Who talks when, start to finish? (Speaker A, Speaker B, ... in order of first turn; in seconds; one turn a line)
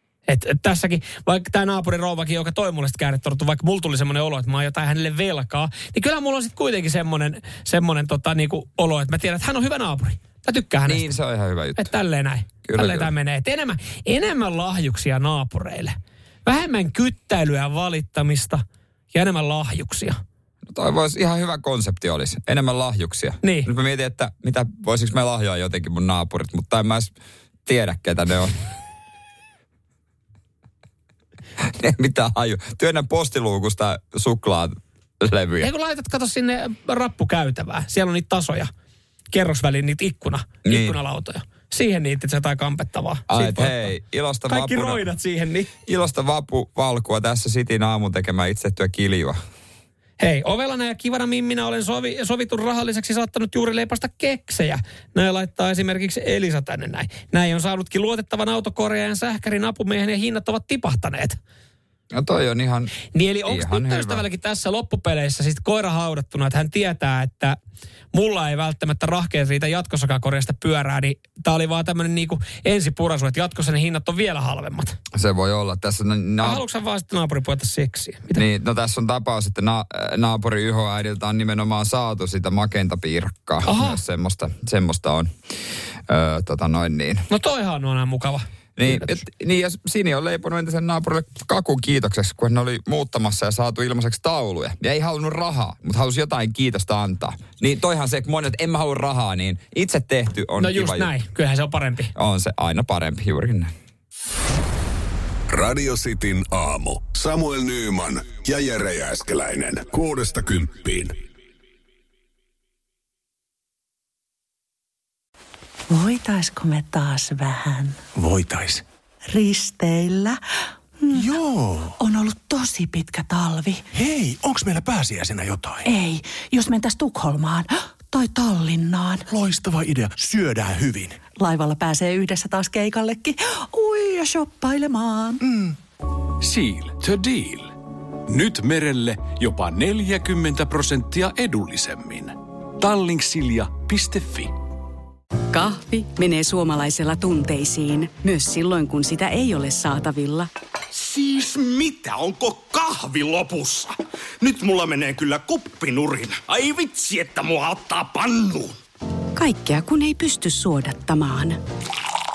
Speaker A: 0.3-11.1
Speaker B: 10.9-11.9
Speaker A: 11.8-20.2
Speaker B: 12.7-13.1
Speaker B: 20.7-27.1
Speaker A: 23.4-23.7
Speaker B: 27.7-28.5
Speaker B: 31.6-35.7
Speaker A: 35.6-38.7
Speaker A: 39.3-43.9
Speaker B: 40.6-41.0
Speaker B: 43.3-45.0
Speaker A: 44.5-45.7
Speaker B: 45.9-49.4
Speaker A: 50.2-61.4
Speaker B: 62.1-64.2
Speaker A: 63.1-67.6
Speaker A: 68.1-75.0
Speaker B: 75.1-76.6
Speaker A: 76.4-78.4
Speaker B: 78.3-85.3
Speaker A: 83.7-84.0
Speaker B: 86.1-87.2
Speaker A: 87.3-89.2
Speaker B: 88.8-101.1
Speaker A: 100.6-102.1
Speaker B: 102.2-103.7
Speaker C: 105.5-111.1
Speaker D: 115.9-118.0
Speaker E: 118.2-118.8
Speaker D: 119.3-120.4
Speaker D: 121.0-121.3
Speaker E: 121.1-122.0
Speaker D: 122.0-123.8
Speaker E: 123.9-125.9
Speaker D: 125.8-129.2
Speaker E: 129.3-131.2
Speaker D: 131.4-135.4
Speaker E: 135.4-135.8
Speaker F: 136.4-137.7
Speaker F: 138.3-144.5
Speaker G: 145.5-150.5
Speaker H: 151.0-158.8
Speaker G: 159.3-161.6